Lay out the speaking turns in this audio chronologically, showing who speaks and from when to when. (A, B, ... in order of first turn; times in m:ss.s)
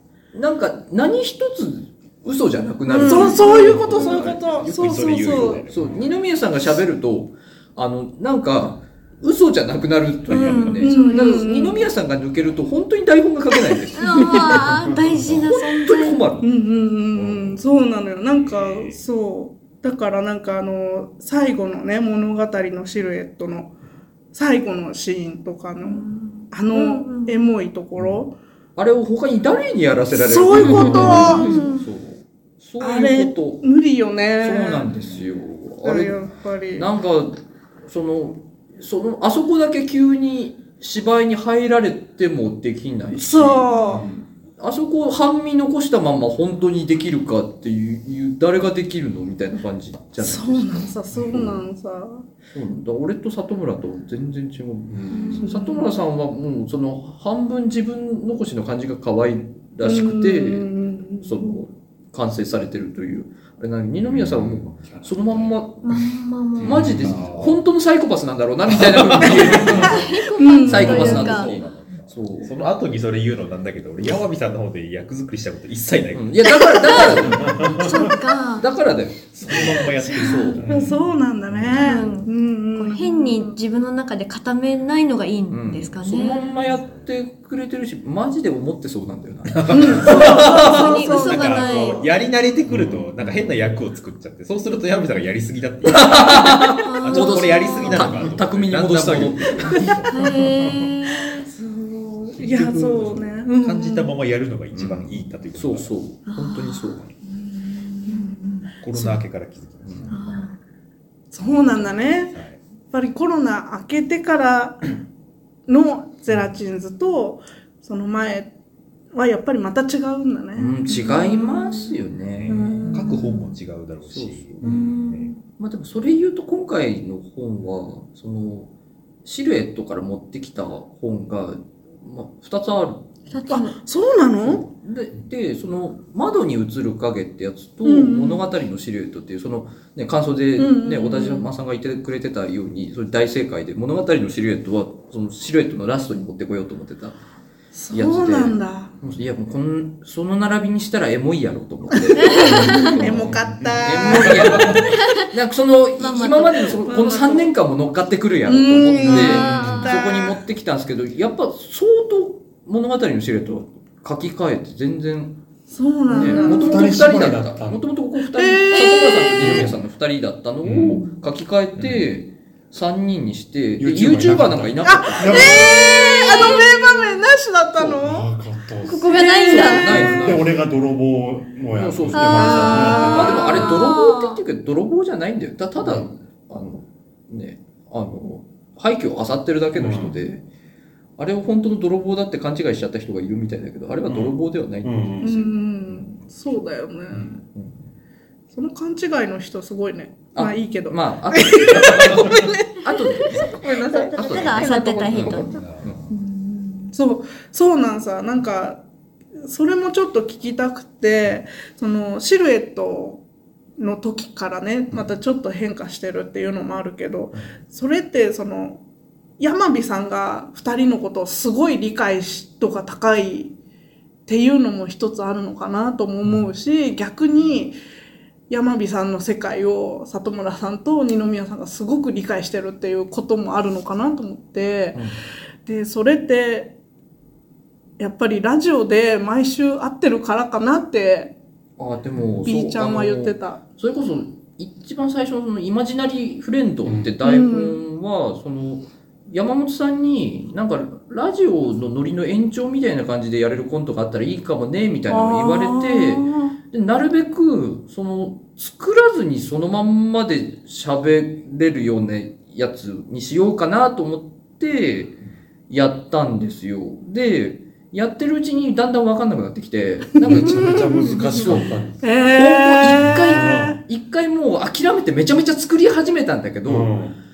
0:00.3-0:04.6 A
0:02.9-0:04.1 B
0:02.9-0:05.7 C
0:03.7-0:06.1 D
0:05.7-0:14.6 A
0:10.3-0:11.5 B
0:10.3-0:10.7 D
0:10.8-0:11.9 C
0:14.0-0:16.2 B
0:14.1-0:14.4 C
0:14.6-0:15.4 E
0:15.5-0:16.5 A
0:16.4-0:23.7 C
0:17.2-0:17.5 D
0:18.3-0:19.0 D
0:24.3-0:28.3 C
0:25.8-0:27.4 B
0:28.8-0:33.7 A
0:30.1-0:31.7 C
0:30.6-0:31.8 B
0:32.8-0:34.9 C
0:34.4-0:36.2 A
0:35.8-0:36.9 C
0:36.7-0:44.0 A
0:43.1-0:44.1 C
0:44.6-0:51.5 A
0:50.2-0:52.3 C
0:52.5-1:00.7 A
0:54.9-0:55.3 E
0:55.1-0:55.6 B
0:55.4-0:55.9 C
0:59.8-1:01.6 C
1:01.2-1:06.0 A
1:04.1-1:05.4 E
1:04.2-1:05.4 D
1:05.8-1:06.8 B
1:06.6-1:07.6 E
1:06.6-1:12.5 A
1:06.6-1:07.6 D
1:08.7-1:10.0 D
1:09.5-1:09.8 E
1:09.8-1:11.5 B
1:10.4-1:11.3 C
1:10.7-1:17.4 D
1:16.1-1:18.1 A
1:16.7-1:18.7 B
1:17.2-1:18.1 E
1:18.6-1:20.6 A
1:19.4-1:21.0 D
1:20.2-1:20.6 B
1:20.2-1:23.6 C
1:20.6-1:21.0 E
1:21.5-1:21.8 E
1:21.8-1:26.5 B
1:25.5-1:31.0 A
1:29.5-1:40.1 D
1:29.7-1:32.1 C
1:30.2-1:32.1 B
1:32.7-1:33.1 E
1:35.8-1:39.9 A
1:36.8-1:38.1 B
1:39.7-1:40.0 C
1:40.1-1:41.5 B
1:40.2-1:40.9 E
1:41.2-1:44.2 C
1:42.4-1:46.0 D
1:44.7-1:47.0 A
1:46.3-1:47.0 B
1:47.3-1:49.2 C
1:48.1-1:48.6 B
1:48.8-1:50.4 D
1:50.1-1:50.6 B
1:51.3-1:52.4 C
1:52.3-1:52.6 D
1:52.9-1:54.8 C
1:55.7-1:58.5 C
1:59.1-2:01.9 C
2:00.6-2:03.1 A
2:02.4-2:05.3 D
2:02.5-2:03.6 C
2:04.1-2:04.8 A
2:04.6-2:05.4 B
2:05.5-2:08.7 A
2:09.2-2:13.0 A
2:13.3-2:13.7 B
2:13.5-2:14.7 C
2:14.4-2:27.2 A
2:17.8-2:18.4 C
2:20.6-2:21.5 C
2:27.7-2:28.9 C
2:27.9-2:45.4 A
2:32.1-2:34.7 C
2:32.2-2:32.9 B
2:33.2-2:34.6 E
2:34.8-2:35.3 B
2:36.0-2:36.9 B
2:36.9-2:37.5 C
2:38.5-2:40.4 C
2:39.0-2:39.8 E
2:39.2-2:40.0 B
2:45.7-2:46.9 C
2:46.1-2:56.6 A
2:46.2-2:47.8 E
2:48.3-2:49.6 C
2:48.7-2:49.3 B
2:49.4-2:49.8 E
2:50.6-2:51.0 E
2:53.8-2:55.6 E
2:54.8-2:58.3 C
2:55.5-2:57.2 B
2:58.0-2:59.1 E
2:58.8-2:59.9 B
2:59.1-3:00.0 C
2:59.1-3:00.5 A
2:59.8-3:03.6 E
3:01.8-3:10.4 A
3:02.1-3:04.4 B
3:02.4-3:03.7 C
3:05.8-3:06.1 E
3:09.8-3:10.2 E
3:11.2-3:16.1 A
3:14.1-3:15.3 E
3:15.2-3:17.4 C
3:18.5-3:25.3 C
3:20.4-3:26.0 A
3:23.9-3:25.6 B
3:25.1-3:26.1 D
3:26.1-3:28.8 C
3:29.4-3:33.2 C
3:33.8-3:38.8 C
3:39.4-3:43.5 C
3:44.3-3:47.8 C
3:48.5-3:55.0 C
3:55.7-3:56.7 C
3:58.0-4:01.4 C
4:01.8-4:25.2 A
4:02.4-4:03.6 C
4:06.9-4:07.1 E
4:07.2-4:07.8 C
4:15.1-4:16.5 C
4:25.7-4:36.9 A
4:30.2-4:32.0 E
4:30.3-4:31.4 C
4:32.0-4:33.8 C
4:33.0-4:33.8 E
4:36.7-4:37.2 E